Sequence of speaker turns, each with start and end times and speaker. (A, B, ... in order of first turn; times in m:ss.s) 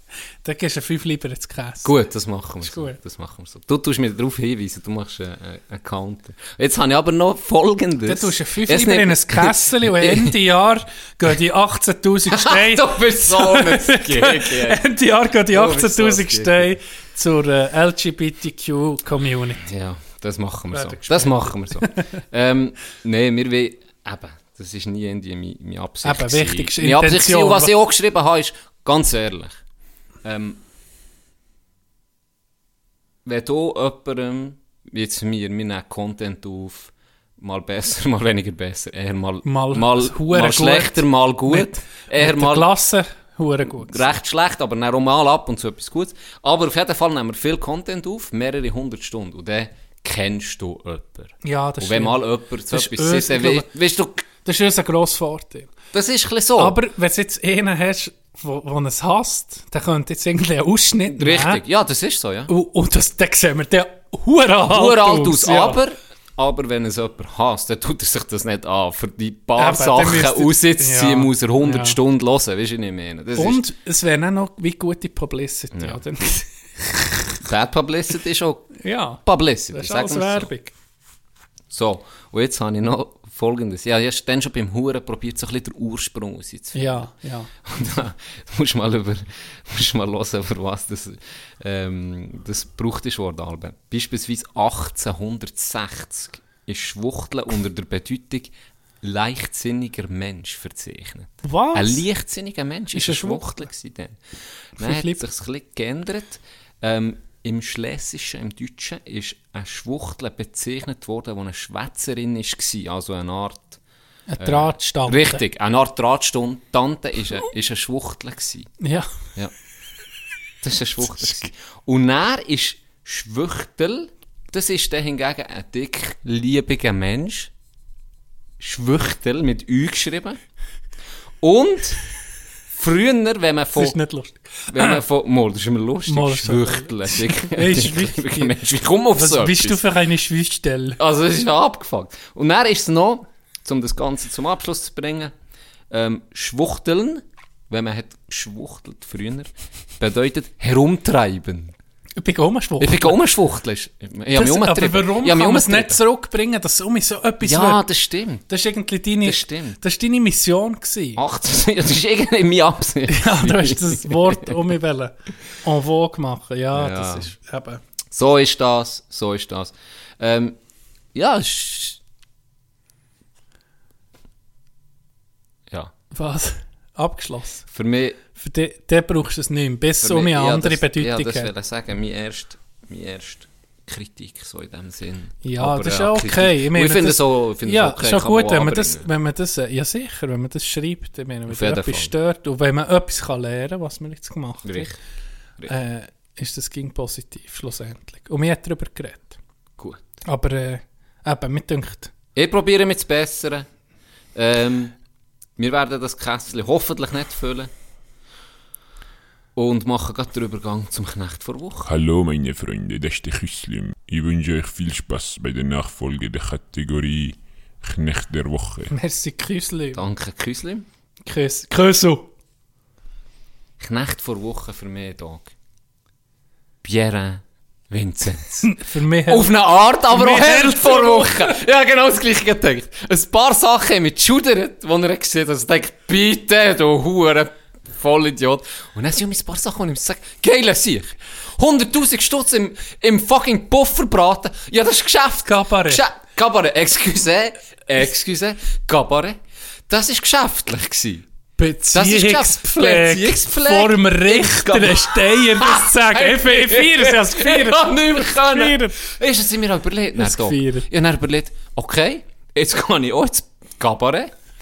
0:00.4-0:01.9 A
0:01.8-0:10.3 B
0:02.6-0:03.0 A
0:08.0-0:19.7 A
0:12.3-0:14.8 B
0:15.5-0:16.7 B
0:19.6-0:29.6 B
0:20.7-0:22.0 A
0:26.0-0:27.7 A
0:30.2-0:30.6 B
0:33.2-0:42.7 B
0:39.4-0:44.1 A
0:43.8-0:54.2 B
0:51.4-0:53.7 A
0:54.3-0:55.7 A
0:55.9-0:56.8 B
0:56.6-1:01.6 A
1:01.1-1:02.5 B
1:02.5-1:05.8 A
1:04.6-1:13.6 B
1:09.5-1:12.0 A
1:13.4-1:17.4 A
1:15.7-1:16.0 B
1:17.4-1:20.5 B
1:18.8-1:20.7 A
1:21.7-1:27.1 B
1:26.7-1:27.5 A
1:27.6-1:44.2 B
1:41.4-1:42.0 A
1:42.9-1:43.7 A
1:44.8-1:53.8 B
1:44.8-1:45.2 A
1:54.3-1:55.4 A
1:54.4-1:58.7 B
1:58.8-1:59.1 A
2:00.6-2:07.5 B
2:08.6-2:10.4 B
2:11.4-2:12.0 B
2:12.7-2:14.0 B
2:13.7-2:15.0 A
2:14.7-2:19.8 B
2:16.1-2:18.6 A
2:19.1-2:21.0 A
2:21.0-2:25.3 B
2:25.9-2:31.7 B
2:32.2-2:33.2 A
2:32.8-2:36.0 B
2:34.3-2:37.8 A
2:37.4-2:38.4 B
2:38.5-2:41.2 A
2:39.2-2:39.8 B
2:41.2-2:44.6 B
2:43.1-2:47.8 A
2:46.7-2:47.3 B
2:48.1-2:50.6 B
2:51.1-2:52.0 B
2:56.1-2:57.6 A
2:57.7-2:58.2 B
2:58.4-3:01.5 A
3:00.0-3:09.1 B
3:05.4-3:14.9 A
3:11.5-3:12.1 B
3:14.6-3:15.0 B
3:15.7-3:19.4 A
3:20.2-3:22.1 A
3:22.3-3:23.6 B
3:24.3-3:24.9 B
3:25.6-3:27.7 B
3:29.6-3:31.9 B
3:31.8-3:38.9 C
3:38.9-3:40.0 A
3:39.9-3:40.8 B
3:41.2-3:42.3 A
3:43.8-3:45.5 B
3:46.8-4:11.2 B
3:48.6-3:49.5 A
3:50.1-3:51.6 A
4:05.4-4:06.0 A
4:11.6-4:19.0 A
4:11.9-4:24.3 B
4:20.2-4:20.9 A